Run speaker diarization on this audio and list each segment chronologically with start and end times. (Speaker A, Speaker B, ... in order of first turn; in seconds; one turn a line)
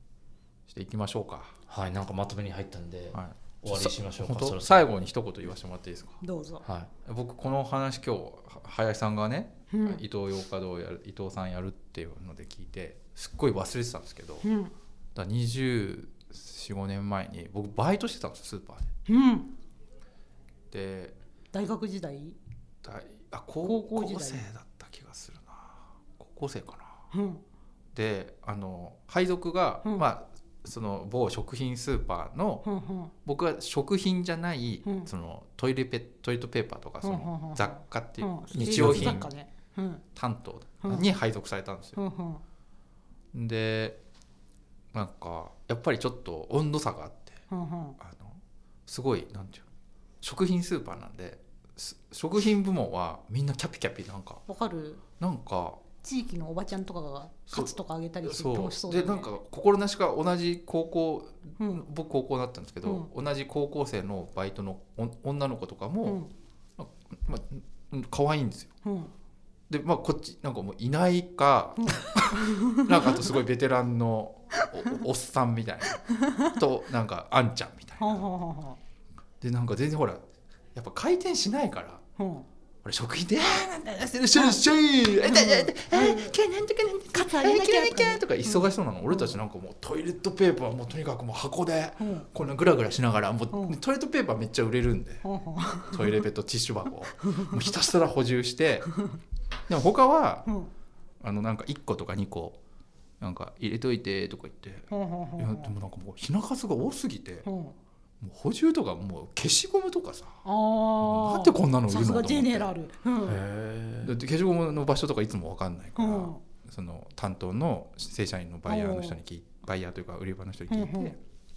Speaker A: 0.7-1.5
Speaker B: 1.7-4.8
Speaker A: 3.1-6.2
Speaker C: 6.2-6.6
Speaker B: 6.6-6.9
Speaker A: 7.0-14.5
Speaker C: 9.7-10.0
Speaker C: 14.4-14.7
Speaker A: 15.1-18.9
Speaker C: 19.1-19.5
Speaker A: 20.7-21.1
Speaker C: 21.5-22.4
Speaker A: 22.8-27.0
Speaker C: 23.6-24.4
Speaker C: 27.1-27.4
Speaker A: 27.9-32.6
Speaker C: 32.6-33.1
Speaker A: 33.2-39.3
Speaker C: 37.0-40.0
Speaker B: 38.5-39.2
Speaker A: 40.1-42.0
Speaker C: 40.8-41.1
Speaker C: 42.0-42.4
Speaker A: 43.3-44.0
Speaker A: 44.9-47.4
Speaker C: 47.5-48.0
Speaker A: 48.0-49.6
Speaker A: 50.2-54.4
Speaker C: 54.5-55.0
Speaker A: 55.2-55.8
Speaker C: 56.0-59.3
Speaker A: 58.2-66.2
Speaker C: 61.6-61.8
Speaker C: 66.0-66.3
Speaker A: 66.8-68.7
Speaker C: 68.8-69.1
Speaker A: 69.7-78.2
Speaker C: 71.8-73.2
Speaker C: 76.0-76.6
Speaker C: 78.0-78.8
Speaker A: 79.4-80.2
Speaker A: 80.7-82.0
Speaker C: 82.2-82.5
Speaker A: 82.8-95.2
Speaker C: 84.3-84.6
Speaker C: 85.1-86.3
Speaker C: 87.1-89.3
Speaker C: 92.0-92.2
Speaker C: 93.5-93.8
Speaker C: 95.2-96.2
Speaker A: 95.9-98.9
Speaker C: 97.2-97.7
Speaker A: 99.7-100.5
Speaker A: 101.2-102.6
Speaker A: 103.2-107.5
Speaker C: 104.9-105.7
Speaker C: 107.4-107.8
Speaker A: 108.2-110.4
Speaker C: 110.4-113.4
Speaker A: 111.0-112.7
Speaker B: 113.3-114.1
Speaker A: 114.0-121.2
Speaker C: 116.0-116.4
Speaker C: 118.7-119.2
Speaker C: 120.7-121.1